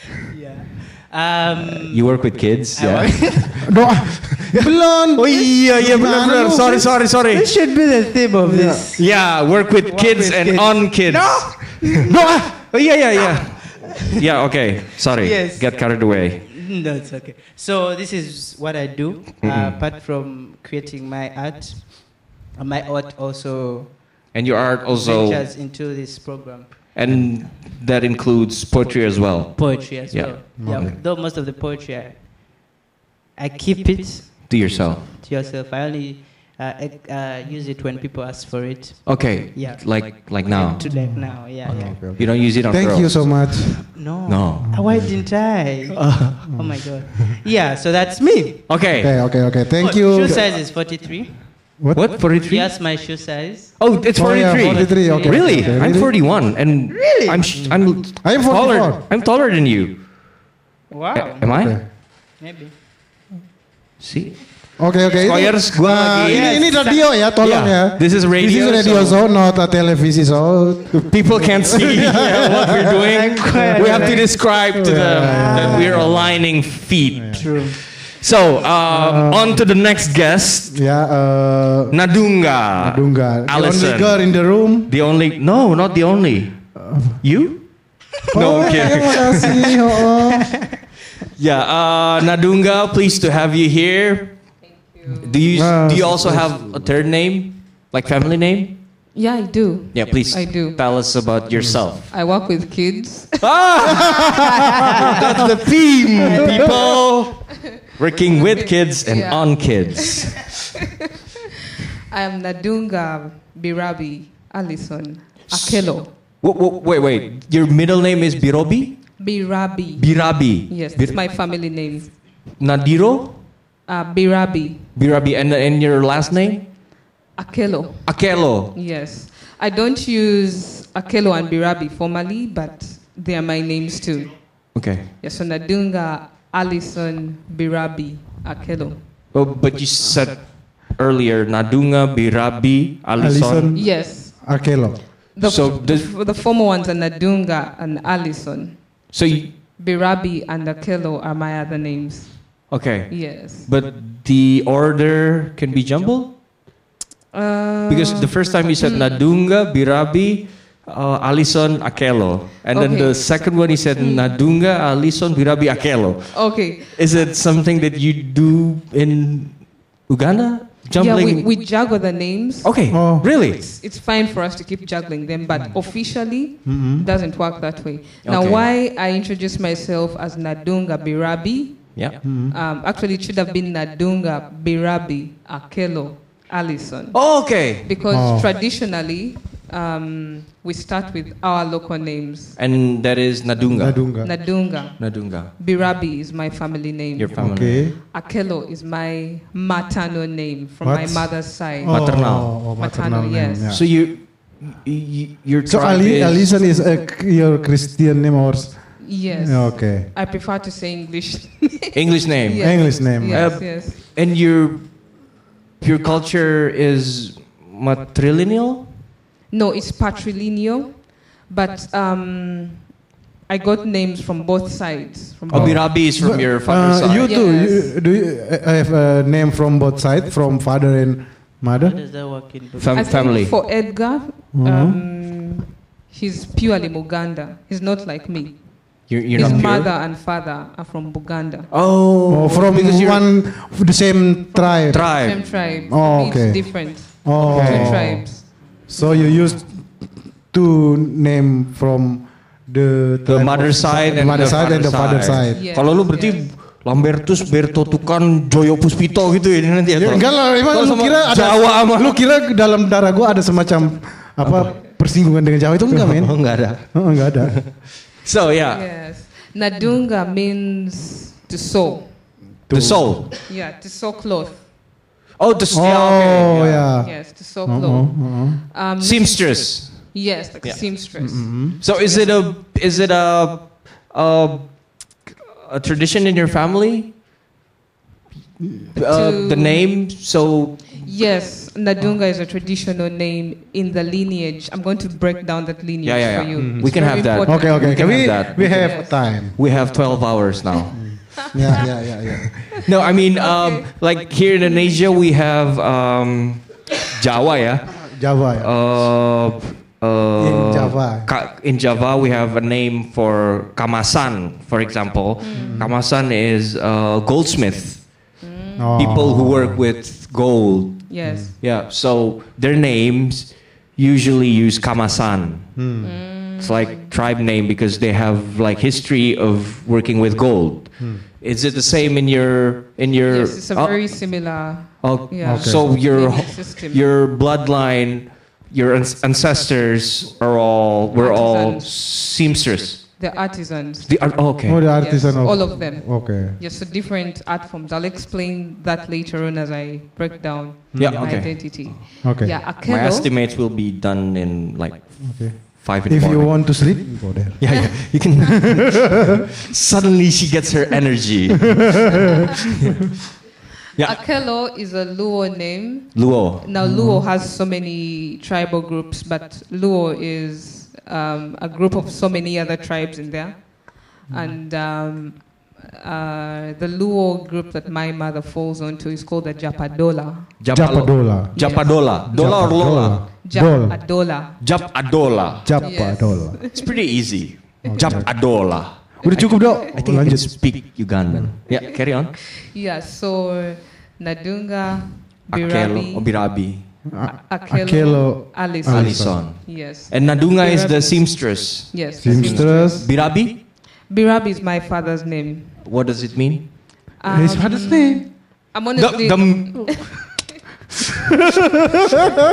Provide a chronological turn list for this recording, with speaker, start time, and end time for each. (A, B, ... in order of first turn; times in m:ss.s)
0:00.3-0:03.7 A
0:01.7-0:07.5 B
0:03.7-0:07.0 C
0:07.3-0:12.1 A
0:08.4-0:08.9 C
0:09.0-0:16.5 B
0:12.1-0:12.5 C
0:15.2-0:26.7 A
0:19.4-0:19.8 B
0:24.3-0:25.4 B
0:26.9-0:30.9 B
0:27.1-0:27.4 C
0:29.6-0:32.7 A
0:30.6-0:31.0 C
0:33.4-0:42.0 A
0:34.5-0:35.1 B
0:39.0-0:45.1 B
0:40.8-0:45.2 C
0:43.9-0:48.8 A
0:46.0-0:46.6 B
0:46.5-0:46.8 C
0:48.7-0:49.6 B
0:49.0-0:50.4 C
0:49.8-0:51.8 A
0:51.8-0:52.2 C
0:51.9-0:52.7 B
0:52.4-0:57.5 A
0:53.8-1:00.5 B
0:54.1-0:56.2 C
0:57.6-0:59.0 C
1:00.9-1:02.7 A
1:01.2-1:01.9 B
1:01.4-1:01.8 C
1:04.0-1:06.9 B
1:04.8-1:13.1 C
1:05.2-1:05.6 A
1:06.2-1:07.1 A
1:07.4-1:09.2 B
1:10.9-1:20.8 B
1:13.1-1:14.5 A
1:13.6-1:17.4 C
1:15.2-1:16.1 A
1:17.3-1:17.8 A
1:18.9-1:19.7 C
1:20.7-1:24.9 C
1:21.9-1:29.6 B
1:26.8-1:27.2 C
1:28.3-1:30.6 C
1:28.5-1:29.0 A
1:31.4-1:34.6 B
1:34.6-1:35.4 D
1:35.2-1:38.9 B
1:35.5-1:36.7 C
1:39.1-1:41.3 D
1:39.9-1:42.1 B
1:41.5-1:41.9 C
1:42.1-1:44.1 D
1:43.4-1:44.5 B
1:45.1-1:50.5 B
1:48.4-1:50.3 D
1:52.1-1:56.1 D
1:55.5-2:01.2 B
1:59.2-2:02.2 D
2:02.5-2:03.5 B
2:03.8-2:04.9 D
2:04.9-2:06.7 B
2:07.4-2:19.2 D
2:08.0-2:08.7 B
2:14.7-2:15.1 B
2:19.3-2:23.7 B
2:23.2-2:25.2 C
2:23.7-2:33.7 D
2:25.4-2:26.1 B
2:29.1-2:29.6 B
2:32.7-2:36.4 B
2:37.3-2:39.2 D
2:37.9-2:51.5 B
2:42.7-2:44.4 D
2:46.3-2:47.1 D
2:51.0-3:12.6 D
2:52.6-2:53.6 B
2:52.9-2:53.3 C
2:55.6-2:57.1 C
2:58.2-2:58.7 B
3:02.0-3:02.2 B
3:02.2-3:02.5 C
3:07.1-3:07.9 B
3:08.1-3:08.5 C
3:12.6-3:14.2 B
3:13.6-3:14.3 C
3:14.2-3:23.7 D
3:14.7-3:15.5 B
3:17.2-3:18.0 B
3:17.4-3:18.0 C
3:20.8-3:23.8 C
3:21.9-3:22.7 B
3:23.7-3:26.5 B
3:25.7-3:30.1 C
3:29.0-3:34.0 D
3:31.9-3:39.0 B
3:32.6-3:33.6 C
3:39.5-3:46.5 D
3:45.5-3:52.0 C
3:45.5-3:47.3 B
3:47.2-3:47.9 D
3:51.8-3:53.0 A
3:52.8-3:53.6 B
3:53.0-4:01.7 D
3:54.5-3:55.0 C
3:59.1-3:59.9 B
3:59.4-3:59.7 C
4:01.7-4:03.4 B
4:02.3-4:15.7 C
4:04.5-4:09.3 D
4:04.9-4:05.6 B
4:07.3-4:08.2 B
4:13.3-4:22.2 B
4:15.5-4:16.6 D
4:20.0-4:27.7 C
4:24.4-4:24.8 B
4:25.9-4:28.9 B
4:28.7-4:32.4 D
4:32.6-4:33.3 C
4:32.7-4:33.3 B
4:33.4-4:35.0 D
4:35.4-4:36.9 B
4:35.7-4:38.6 C
4:37.0-4:42.4 D
4:39.0-4:47.1 B
4:41.2-4:41.8 C
4:49.0-4:51.0 B
4:49.1-4:50.0 D
4:50.9-4:59.5 D
4:56.0-5:01.3 B
4:56.6-4:59.6 C
5:00.9-5:02.6 C
5:01.4-5:01.8 D
5:02.9-5:18.4 B
5:03.3-5:04.0 D
5:04.6-5:05.0 D
5:08.1-5:09.2 C
5:10.4-5:11.3 C
5:15.4-5:15.9 D
5:15.5-5:15.9 C
5:18.4-5:19.1 D
5:18.8-5:19.9 C
5:19.0-5:25.8 B
5:21.1-5:21.6 D
5:21.2-5:21.5 C
5:25.8-5:26.1 C
5:26.0-5:27.1 D
5:26.5-5:43.2 B
5:31.0-5:31.2 C
5:33.3-5:37.0 D
5:35.4-5:35.9 C
5:41.1-5:42.1 D
5:43.2-5:53.3 D
5:44.0-5:45.0 B
5:44.6-5:46.6 C
5:50.9-5:51.7 C
5:51.0-5:59.2 B
5:52.2-5:52.6 C
5:55.2-5:58.8 C
5:57.7-5:58.0 D
5:59.7-6:02.1 B
6:04.0-6:20.7 D
6:06.1-6:06.6 B
6:06.8-6:07.2 C
6:14.3-6:14.6 C
6:20.6-6:23.3 B
6:20.7-6:24.0 C
6:21.5-6:24.6 D
6:24.6-6:26.1 B
6:25.6-6:26.6 C
6:25.8-6:26.9 D
6:26.8-6:32.3 B
6:27.8-6:28.2 D
6:27.9-6:31.5 C
6:29.3-6:29.9 D
6:31.7-6:36.7 D
6:35.5-6:37.1 B
6:37.1-6:39.4 C
6:37.2-6:45.8 D
6:38.8-6:43.6 B
6:42.2-6:43.1 C
6:45.8-6:46.9 B
6:47.2-6:50.4 D
6:47.3-6:48.3 C
6:49.0-6:50.3 B